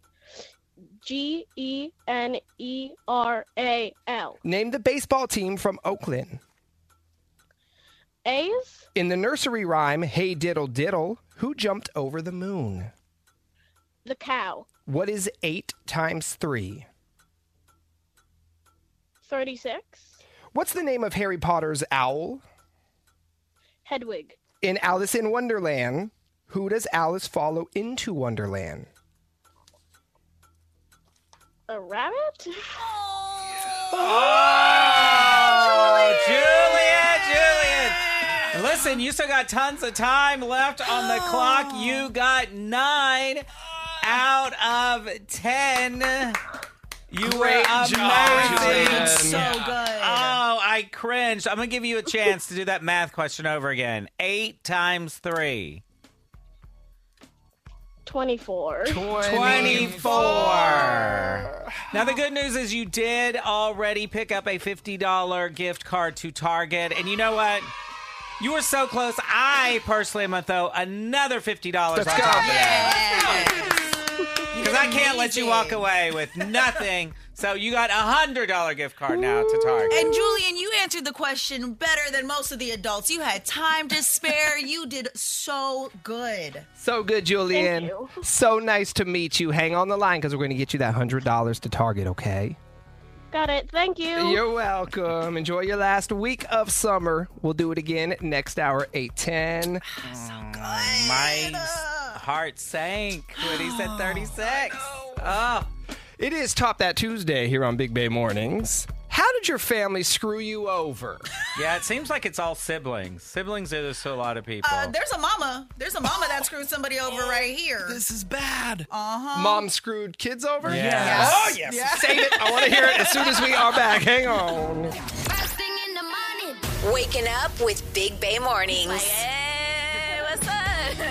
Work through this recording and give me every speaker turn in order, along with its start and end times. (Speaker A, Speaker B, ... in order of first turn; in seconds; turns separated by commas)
Speaker A: 1.0-4.4, Speaker B: 4.4-6.4, Speaker A: 8.2-8.9, Speaker B: 8.9-12.9, Speaker A: 14.1-14.7, Speaker B: 14.9-16.9, Speaker A: 19.2-20.2, Speaker B: 20.5-22.4, Speaker A: 23.9-24.4, Speaker B: 24.6-28.9, Speaker A: 31.7-32.7, Speaker C: 32.8-34.2, Speaker D: 34.0-43.5, Speaker C: 35.2-36.4, Speaker C: 40.9-42.1, Speaker D: 44.0-46.4, Speaker D: 47.1-55.8, Speaker B: 47.2-49.4, Speaker C: 48.0-50.4, Speaker E: 48.1-49.6, Speaker A: 58.1-59.1, Speaker B: 58.9-61.7, Speaker D: 59.1-67.7, Speaker E: 59.4-60.3, Speaker D: 68.4-73.3, Speaker B: 71.9-73.0, Speaker C: 72.2-73.8, Speaker C: 74.5-75.9, Speaker D: 74.6-80.1, Speaker A: 79.4-80.1, Speaker C: 79.9-86.7, Speaker B: 86.8-92.6, Speaker A: 87.5-88.2, Speaker A: 93.3-94.4, Speaker B: 94.2-99.8, Speaker C: 99.9-102.2, Speaker D: 100.0-105.7, Speaker B: 106.2-111.3, Speaker D: 111.5-115.0, Speaker C: 114.6-118.0, Speaker E: 117.9-118.9, Speaker C: 118.9-119.7, Speaker B: 119.3-125.0, Speaker D: 120.7-121.5, Speaker E: 120.7-122.5, Speaker C: 121.0-122.0, Speaker F: 126.7-129.4